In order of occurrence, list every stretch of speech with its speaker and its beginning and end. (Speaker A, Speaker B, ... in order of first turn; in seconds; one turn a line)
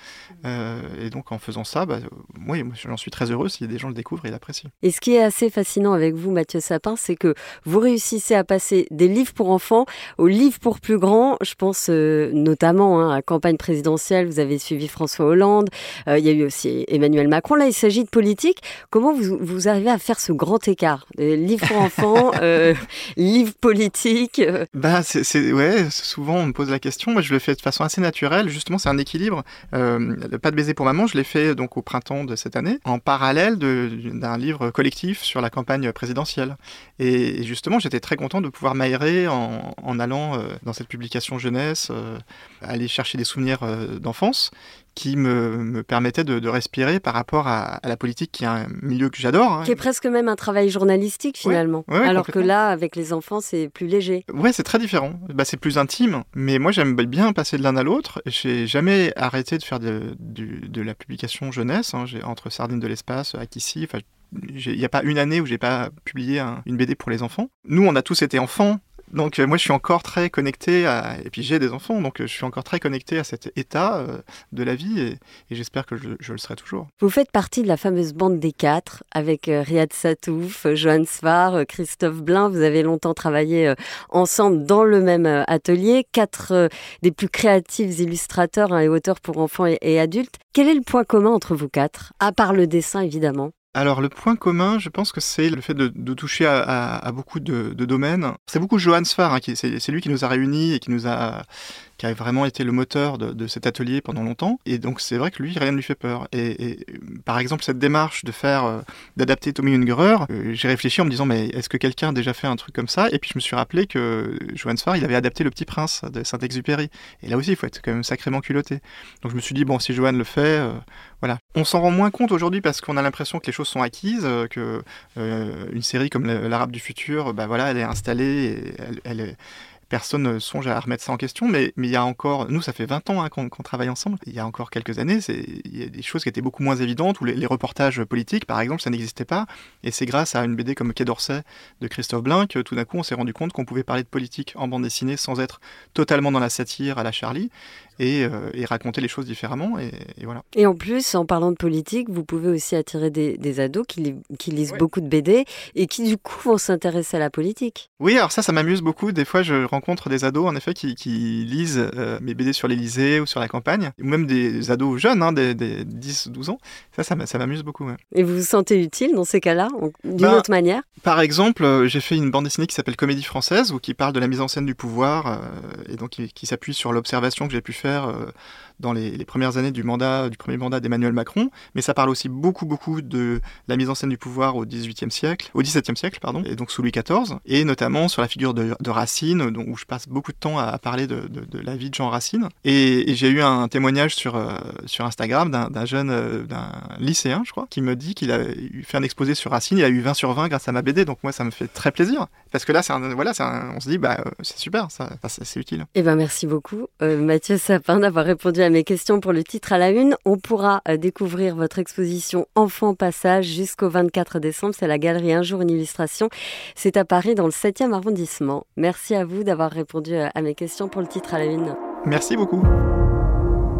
Speaker A: 0.4-4.7
Speaker B: 4.8-24.7
Speaker A: 24.7-49.8
Speaker B: 49.6-54.2
Speaker A: 51.4-52.5
Speaker A: 54.3-76.9
Speaker B: 77.0-93.5
Speaker A: 93.7-101.5
Speaker A: 102.0-129.4
Speaker A: 129.9-150.4
Speaker B: 150.6-157.9
Speaker A: 158.0-168.0
Speaker B: 168.1-170.8
Speaker A: 170.2-170.4
Speaker A: 171.0-205.9
Speaker B: 205.9-221.8
Speaker A: 222.0-222.7